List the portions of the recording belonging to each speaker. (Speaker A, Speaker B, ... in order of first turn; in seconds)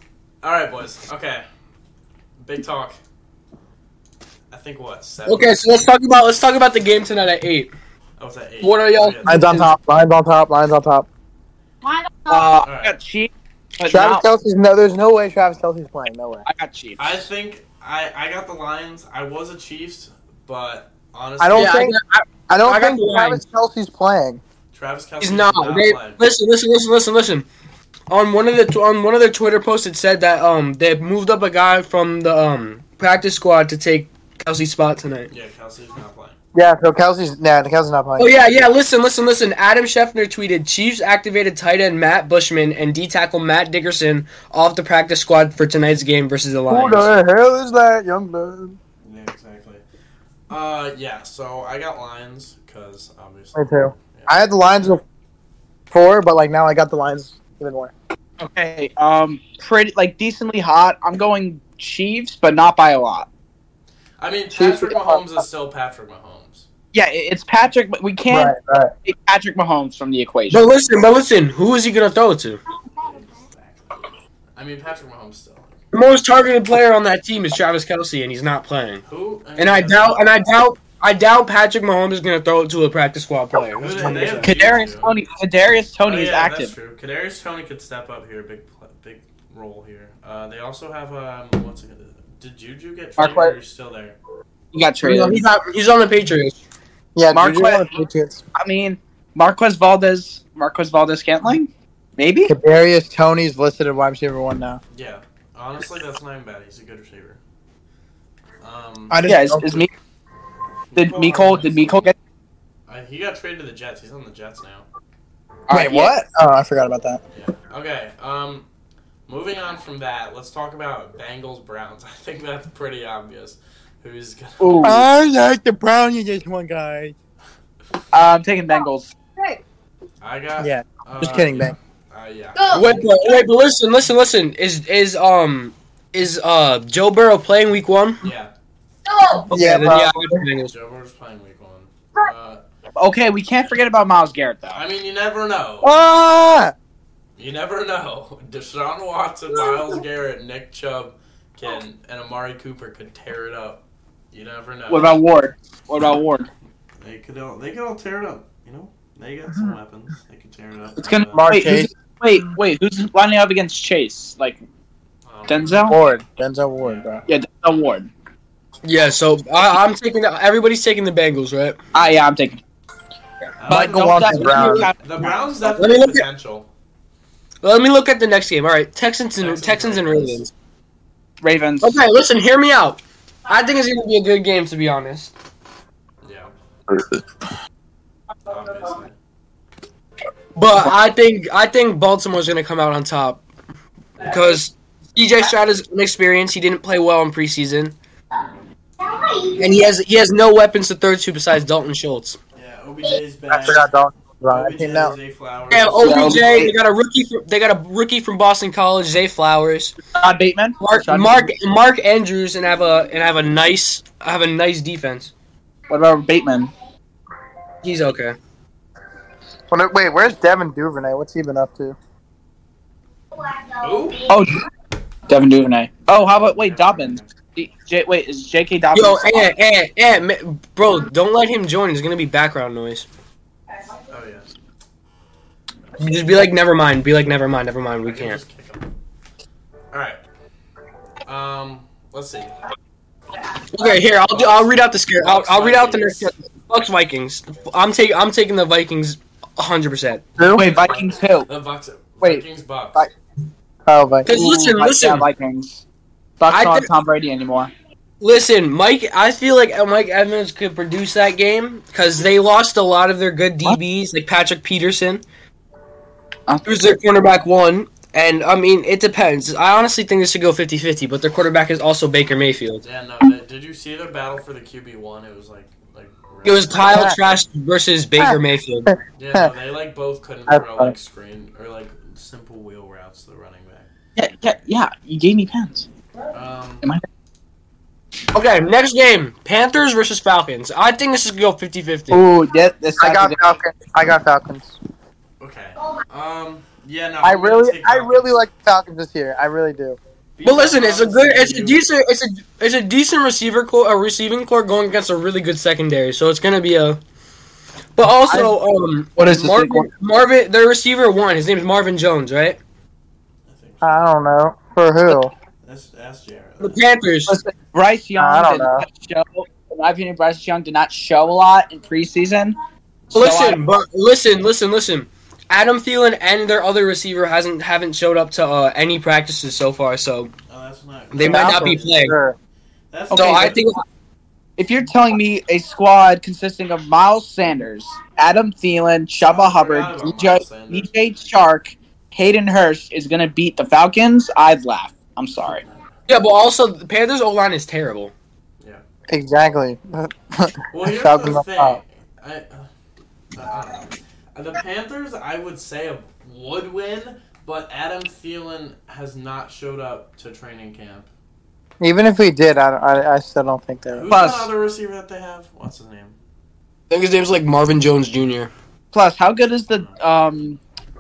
Speaker A: 0.4-1.4, 2.4-3.0, 4.5-5.6, 8.2-9.6, 12.6-13.0, 17.0-21.8, 24.7-26.2, 35.3-36.4, 49.0-49.8, 50.5-54.4, 64.2-66.7, 73.0-75.8, 79.1-80.3, 83.8-85.2, 86.0-94.2, 104.9-107.4, 108.6-109.2, 110.9-112.1, 112.9-114.9, 117.3-118.7, 119.3-125.0, 130.2-132.9, 138.2-138.5, 140.7-142.6, 144.7-146.0, 147.4-155.2, 157.0-161.5, 165.3-166.2, 166.8-167.2, 171.9-172.3, 173.6-176.7, 179.4-180.4, 186.2-186.5, 188.5-189.2, 202.6-206.7, 223.8-224.2, 226.2-227.3, 234.1-234.5, 238.0-238.9, 239.9-240.2, 241.2-242.6, 244.3-246.3, 250.4-253.1, 272.8-277.2, 279.2-283.9, 286.3-286.9, 295.4-298.3, 300.4-301.8, 313.5-314.1, 315.6-316.8, 330.5-332.2, 332.9-333.6, 339.2-340.9, 350.7-352.7, 353.3-361.1, 363.9-366.1, 369.7-370.0
Speaker B: 5.3-7.7, 8.6-9.7, 21.6-23.4, 25.2-27.5, 28.1-35.3, 38.2-47.1, 70.5-72.6, 75.9-79.0, 79.6-84.6, 95.0-96.6, 132.7-138.2, 139.5-140.7, 168.8-171.8, 175.8-176.3, 177.6-180.5, 181.8-185.3, 190.6-193.4, 194.2-197.9, 199.6-202.4, 205.7-210.0, 210.8-215.3, 217.8-218.4, 228.9-233.1, 236.0-238.4, 243.7-250.3, 254.3-255.3, 256.5-256.9, 258.2-265.2, 266.6-272.8, 276.4-278.9, 288.3-292.2, 300.4-307.0, 308.0-312.6, 316.6-317.4, 323.1-330.3, 331.1-332.2, 333.1-333.8, 346.1-348.1, 366.9-368.5
Speaker C: 9.3-11.1, 13.9-16.5, 21.4-22.0, 22.5-24.4, 36.5-38.4, 46.7-48.8, 53.5-55.0, 55.9-57.9, 64.5-65.2, 68.3-68.9, 97.2-98.4, 102.5-104.8, 109.1-109.9, 115.7-117.2, 124.8-127.2, 130.6-131.8, 139.5-140.4, 145.8-146.7, 161.3-161.9, 165.9-167.2, 173.7-174.9, 203.5-205.2, 219.7-222.0, 250.4-250.7, 253.9-254.3, 276.9-277.2, 278.2-279.5, 280.5-280.9, 293.0-294.8, 297.2-300.0, 313.8-315.3, 318.2-318.9, 331.2-332.4, 349.1-351.8, 361.8-364.1
Speaker D: 11.8-12.5, 132.6-133.4, 139.1-139.5, 199.0-199.8
Speaker E: 12.3-14.2, 16.5-17.2, 22.8-23.4, 58.4-63.3, 66.9-68.5, 69.0-70.7, 84.4-86.7, 93.2-93.5, 94.7-95.4, 97.3-97.9, 98.5-102.5, 109.2-109.9, 111.0-112.2, 115.7-116.1, 124.6-125.0, 128.1-129.1, 143.0-144.8, 154.9-156.5, 161.0-164.6, 165.5-166.0, 167.3-168.1, 171.9-172.6, 173.7-175.0, 181.4-182.0, 206.0-206.7, 210.2-211.5, 215.9-216.7, 224.3-224.6, 225.3-229.5, 250.4-251.5, 254.3-255.8, 256.4-257.7, 266.5-266.8, 284.2-285.9, 292.1-293.4, 309.2-309.9, 317.3-322.6, 323.1-323.6, 333.1-333.6, 334.6-345.6, 364.1-364.5, 368.9-370.6